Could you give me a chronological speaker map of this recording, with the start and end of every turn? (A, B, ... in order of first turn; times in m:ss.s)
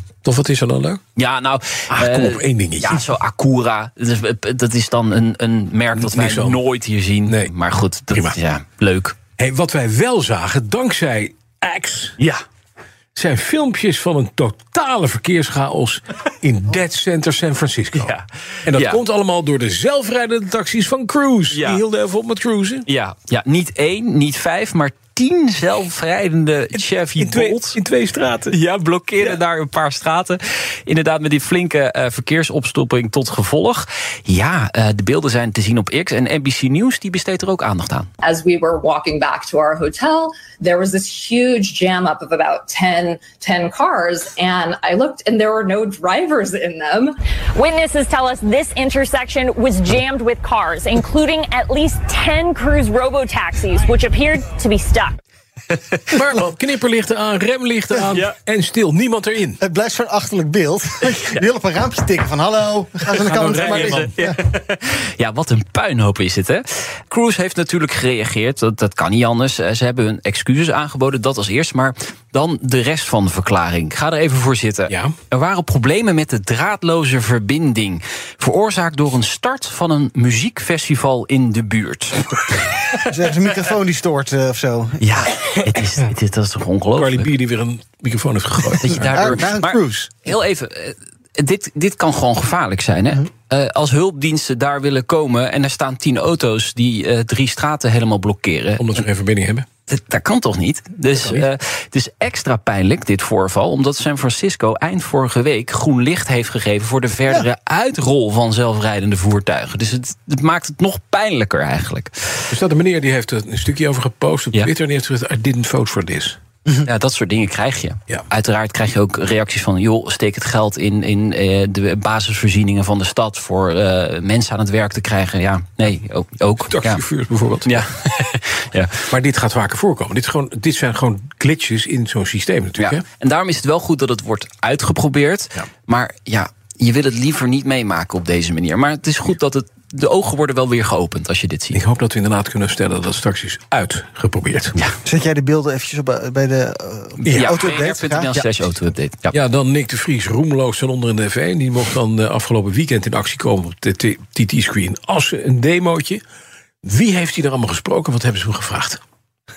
0:00.2-0:01.0 A
0:01.2-0:09.2 B
0:01.9-0:03.0 A
0:06.0-0:06.6 A
0:07.3-0:07.5 A
0:08.1-0:08.4 A
0:09.4-0:12.2 A
0:13.2-0:18.1 A
0:18.0-0:19.0 B
0:18.7-0:22.9 A
0:21.5-0:21.8 B
0:22.9-0:27.8 B
0:27.2-0:28.6 A
0:28.5-0:38.1 B
0:38.2-0:47.2 C
0:47.6-0:55.2 D
0:56.1-0:59.6 A
0:59.6-1:04.4 E
1:03.2-1:04.1 A
1:03.7-1:22.7 B
1:14.9-1:15.2 A
1:23.1-1:25.3 E
1:25.0-1:27.3 B
1:27.0-1:29.3 A
1:28.7-1:39.0 B
1:29.0-1:30.2 E
1:38.8-1:39.7 A
1:39.9-1:52.5 B
1:41.1-1:41.5 A
1:52.5-1:56.4 A
1:56.8-2:07.0 B
2:06.6-2:07.8 A
2:07.7-2:09.0 B
2:09.1-2:13.0 A
2:12.8-2:21.8 B
2:21.7-2:24.8 A
2:25.0-2:28.5 E
2:27.2-2:27.6 A
2:27.3-2:29.4 B
2:29.3-2:36.2 A
2:36.8-2:39.0 A